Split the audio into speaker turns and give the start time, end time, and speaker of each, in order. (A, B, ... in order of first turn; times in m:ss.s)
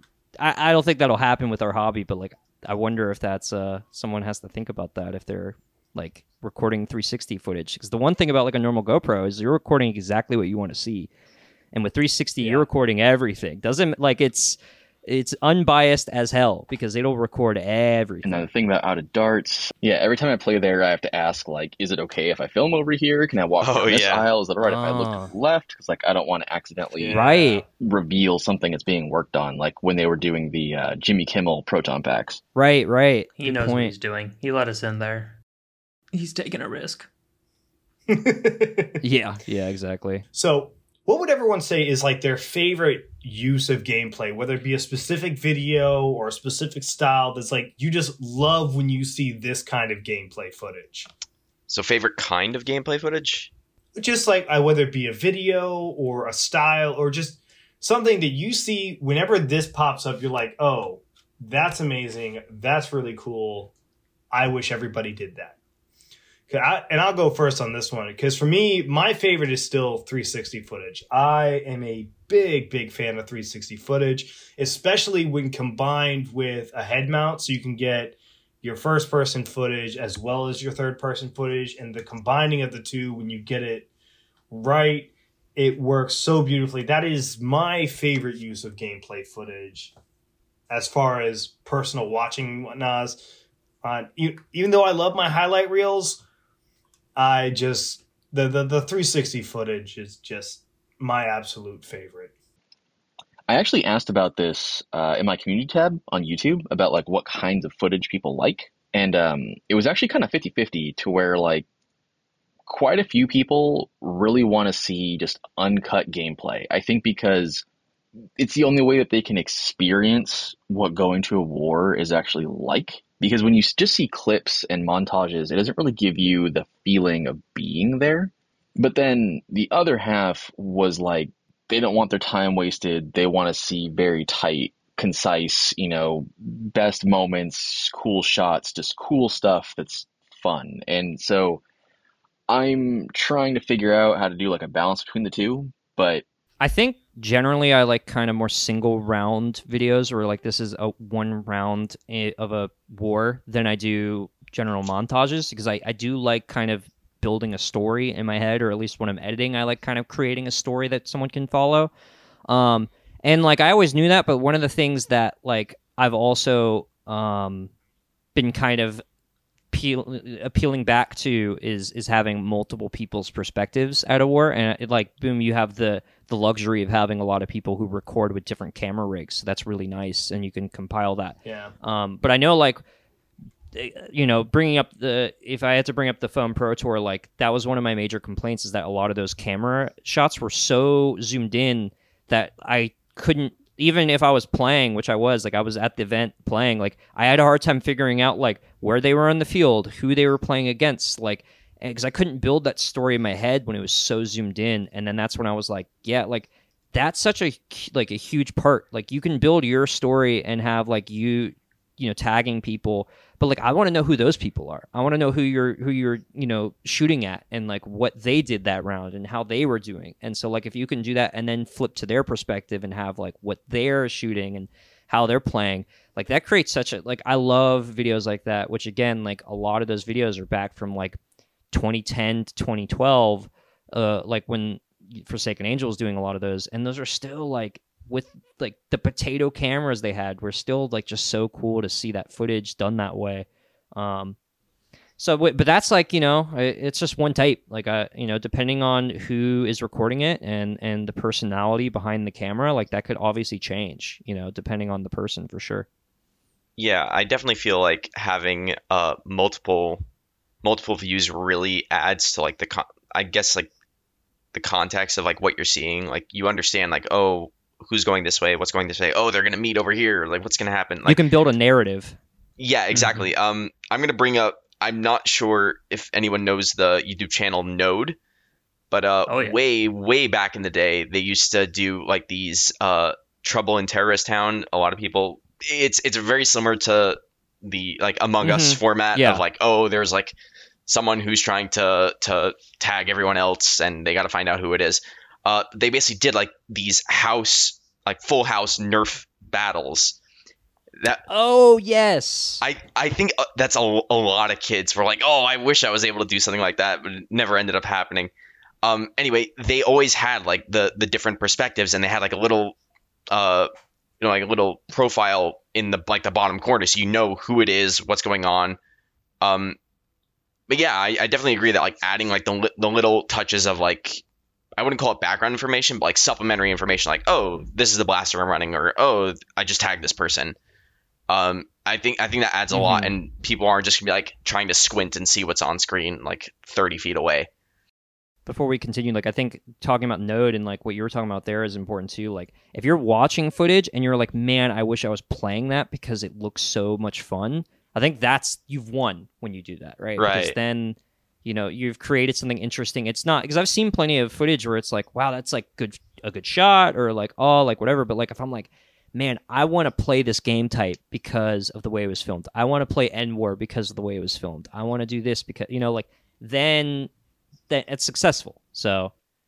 0:00.4-0:11.1 A
0:11.7-0:18.5 A
0:12.4-0:12.7 B
0:18.2-0:27.2 C
0:23.6-0:24.2 D
0:24.6-0:25.3 A
0:27.0-0:27.6 B
0:27.1-0:27.6 A
0:27.8-0:32.4 C
0:32.5-0:33.9 A
0:33.4-0:35.4 E
0:36.1-0:37.1 E
0:38.1-0:39.0 B
0:39.0-0:40.2 A
0:40.3-0:51.1 B
0:51.7-0:53.5 D
0:54.0-1:03.7 B
1:04.3-1:05.6 B
1:06.5-1:23.9 B
1:24.5-1:29.9 B
1:30.7-1:33.2 B
1:33.8-1:36.2 B
1:37.2-1:42.3 B
1:43.5-1:51.6 C
1:52.6-1:57.6 C
1:58.4-2:21.6 C
2:22.5-2:26.2 C
2:26.6-2:41.9 A
2:42.5-2:47.7 A
2:48.3-2:49.0 A
2:49.7-3:02.8 A
3:01.4-3:01.7 B
3:03.7-3:51.2 A
3:51.7-4:04.4 A
4:05.2-4:15.9 A
4:16.8-4:20.0 D
4:20.6-4:23.7 D
4:24.5-4:31.2 D
4:31.0-4:32.2 A
4:32.6-4:38.2 D
4:32.9-4:33.2 A
4:38.9-4:50.3 D
4:39.3-4:39.6 E
4:48.4-4:49.4 A
4:50.9-5:00.2 D
5:01.3-5:02.6 A
5:02.6-5:08.3 D
5:08.8-5:12.8 D
5:13.3-5:13.7 D
5:14.2-5:18.8 D
5:19.4-5:19.8 D
5:20.7-5:24.2 D
5:24.8-5:30.6 D
5:31.3-5:37.5 D
5:32.7-5:33.1 A
5:38.4-6:07.1 A
5:50.2-5:50.6 D
6:07.7-6:09.1 A